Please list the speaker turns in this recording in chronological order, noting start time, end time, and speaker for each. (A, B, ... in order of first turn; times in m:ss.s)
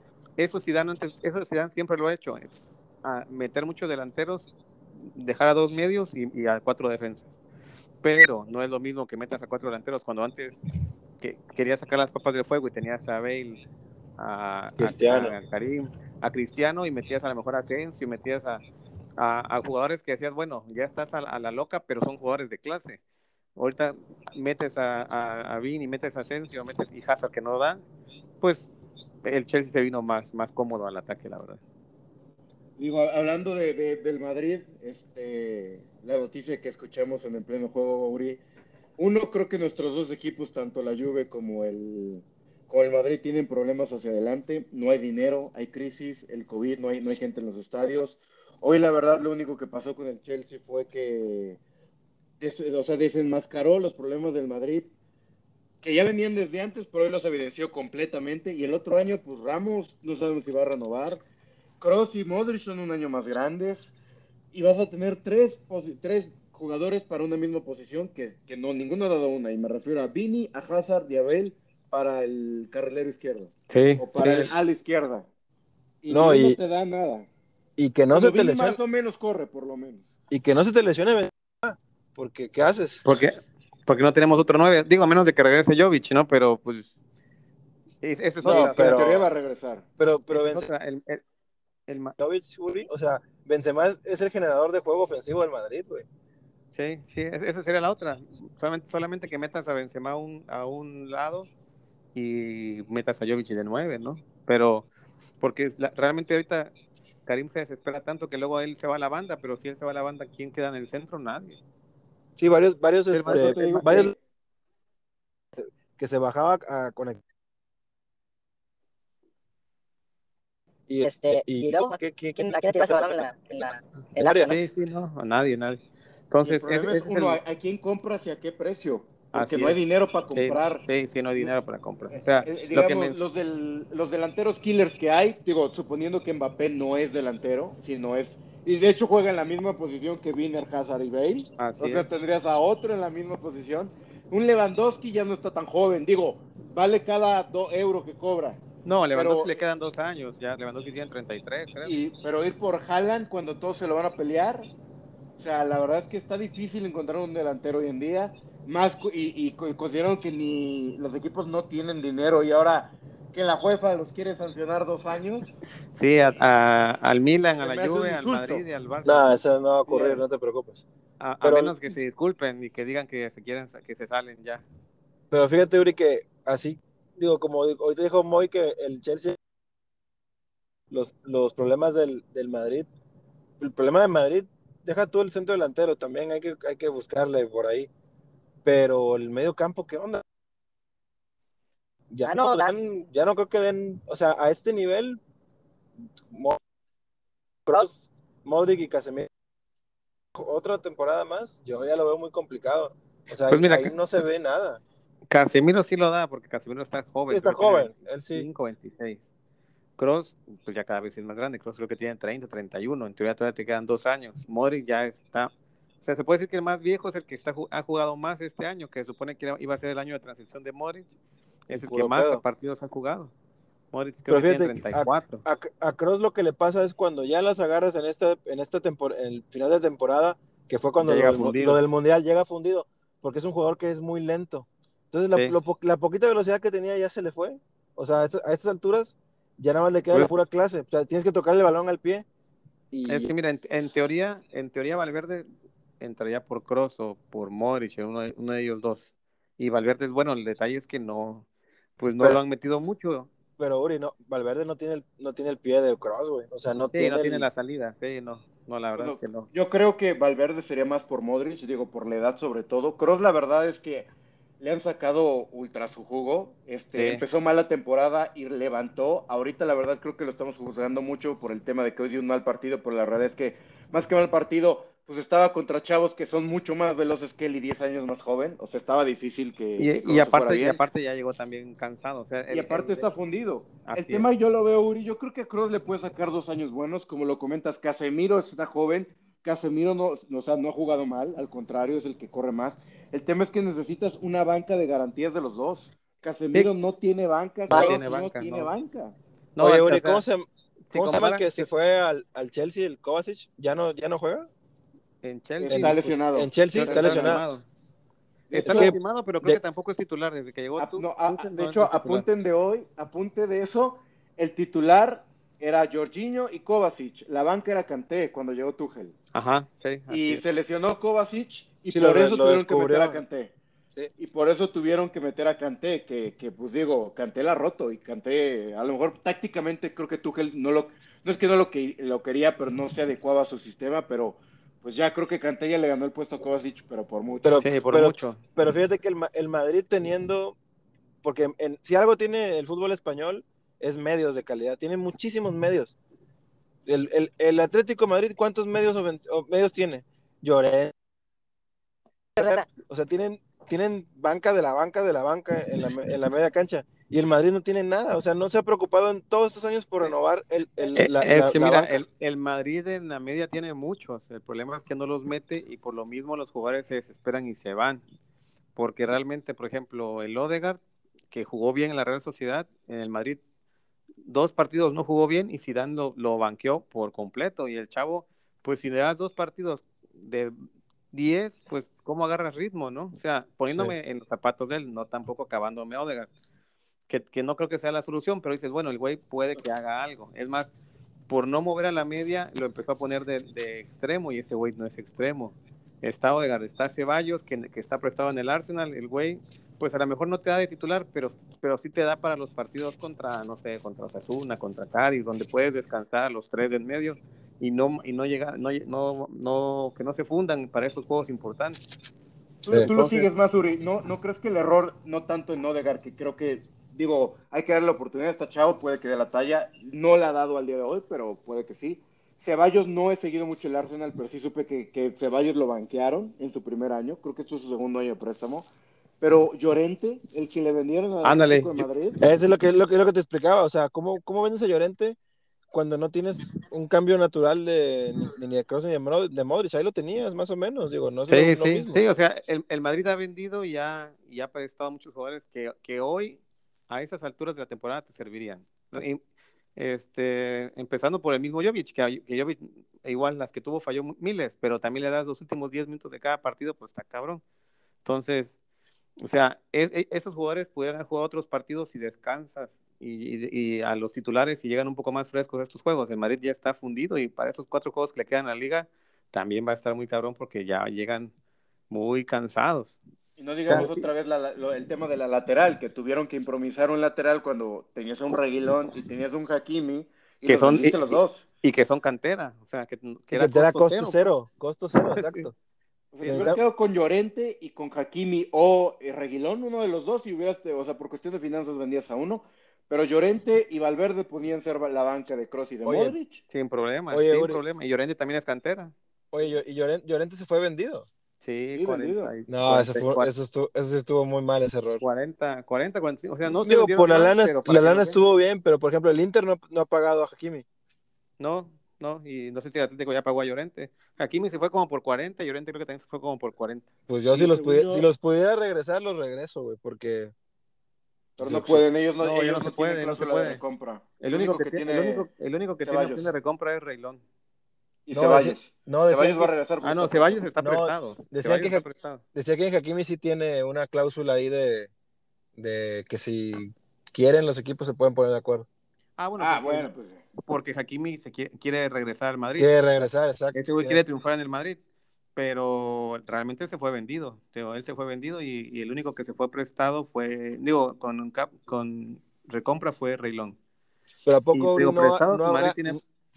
0:00.4-0:07.3 A
0:08.0-0:10.6 A
0:11.2-0:13.6 A
0:14.2-0:18.6 A
0:14.8-0:15.4 B
0:19.2-0:23.0 A
0:23.6-0:27.8 A
0:28.4-0:28.7 A
0:29.2-0:31.6 A
0:32.8-0:38.4 C
0:39.0-0:51.6 C
0:52.4-0:54.9 C
0:55.8-1:01.2 C
1:01.8-1:03.9 C
1:04.5-1:15.3 C
1:13.7-1:14.5 A
1:16.0-1:17.3 C
1:16.1-1:16.6 B
1:17.8-1:18.8 B
1:18.1-1:20.1 C
1:20.3-1:23.0 B
1:23.0-1:27.0 A
1:28.0-1:29.3 A
1:28.4-1:29.8 C
1:28.4-1:29.0 B
1:30.0-1:30.7 B
1:30.3-1:31.2 A
1:31.9-1:32.2 A
1:32.2-1:36.0 B
1:36.7-1:41.5 A
1:42.1-1:44.9 A
1:45.4-1:46.7 A
1:47.2-1:51.6 A
1:52.4-1:54.1 B
1:53.1-1:54.0 A
1:53.2-1:54.1 C
1:55.5-1:57.2 B
2:00.9-2:02.9 B
2:01.0-2:04.6 D
2:04.2-2:04.5 B
2:04.5-2:07.4 A
2:06.4-2:10.8 C
2:09.3-2:09.8 A
2:10.3-2:13.2 A
2:12.4-2:28.6 C
2:21.6-2:22.1 A
2:28.8-2:31.9 A
2:29.1-2:29.5 C
2:31.8-2:34.7 C
2:35.4-2:45.5 C
2:45.9-2:49.3 A
2:47.6-2:48.6 C
2:49.0-2:50.8 B
2:49.9-2:50.2 C
2:51.2-2:54.6 A
2:51.4-2:51.7 B
2:55.3-2:59.4 B
3:00.9-3:02.9 B
3:03.6-3:07.9 B
3:08.6-3:10.2 B
3:12.1-3:15.2 B
3:12.2-3:12.7 D
3:16.2-3:16.6 B
3:17.7-3:19.3 B
3:20.4-3:24.8 B
3:23.5-3:23.9 A
3:25.3-3:29.3 A
3:27.3-3:28.5 B
3:30.0-3:35.5 A
3:36.0-3:41.1 A
3:41.7-3:43.3 A
3:41.7-3:42.4 B
3:43.9-3:45.4 A
3:44.3-4:02.2 B
3:51.0-3:51.8 A
3:55.3-3:55.6 A
4:02.9-4:03.3 B
4:03.1-4:05.5 A
4:06.0-4:11.4 A
4:12.0-4:13.3 A
4:13.6-4:17.5 B
4:16.9-4:19.5 A
4:19.0-4:24.1 C
4:24.6-4:40.8 C
4:26.9-4:27.2 A
4:39.8-4:43.1 A
4:42.5-4:59.2 C
4:43.8-4:44.2 A
4:57.7-4:58.7 A
4:57.7-4:58.0 D
4:59.6-5:00.2 A
4:59.6-5:04.5 B
5:00.9-5:01.6 A
5:05.2-5:06.1 A
5:05.6-5:07.4 C
5:05.7-5:07.4 B
5:06.7-5:07.6 A
5:08.5-5:09.0 C
5:08.5-5:12.3 A
5:08.6-5:09.6 B
5:10.8-5:19.1 C
5:19.3-5:20.4 A
5:20.1-5:23.5 C
5:21.9-5:23.2 B
5:24.2-5:37.6 C
5:37.4-5:40.6 B
5:37.6-5:38.4 A
5:41.2-5:46.0 B
5:46.8-5:50.9 B
5:52.4-5:52.7 D
5:52.4-6:02.0 B
6:00.9-6:08.0 A
6:08.8-6:10.8 A
6:11.3-6:13.4 A
6:14.2-6:20.6 A
6:21.1-6:26.3 A
6:23.7-6:23.9 B
6:27.1-6:30.7 A
6:31.3-6:51.8 A
6:52.6-7:08.7 C
6:52.9-6:53.3 A
7:09.2-7:12.2 C
7:11.2-7:11.9 A
7:12.2-7:15.2 B
7:15.7-7:22.0 B
7:21.3-7:29.2 A
7:29.8-7:37.4 A
7:38.0-7:38.6 A
7:39.2-7:51.3 A
7:51.9-7:53.0 A
7:53.4-8:01.4 C
7:53.7-7:54.0 A
8:00.4-8:04.3 A
8:03.3-8:05.5 B
8:05.0-8:05.4 A
8:06.1-8:16.4 C
8:06.2-8:06.6 A
8:06.3-8:06.6 B
8:15.8-8:16.1 B
8:16.5-8:18.9 A
8:17.1-8:17.6 B
8:19.3-8:21.1 B
8:21.4-8:23.3 A
8:21.7-8:22.3 C
8:22.5-8:25.0 B
8:25.0-8:28.2 A
8:26.4-8:30.6 B
8:31.4-8:36.9 A
8:37.1-8:40.3 B
8:37.3-8:38.0 C
8:41.4-8:41.8 B
8:41.4-8:45.3 C
8:42.2-8:43.6 A
8:44.2-8:47.2 A
8:45.8-8:46.3 C
8:48.1-8:50.4 C
8:48.1-8:49.5 B
8:49.8-8:52.2 A
8:50.6-8:51.8 B
8:52.3-8:54.9 B
8:55.6-8:58.6 B
8:59.2-8:59.9 A
8:59.4-9:00.2 C
9:00.4-9:04.8 A
9:02.6-9:04.0 B
9:05.4-9:13.6 A
9:14.2-9:16.0 B
9:14.5-9:16.0 A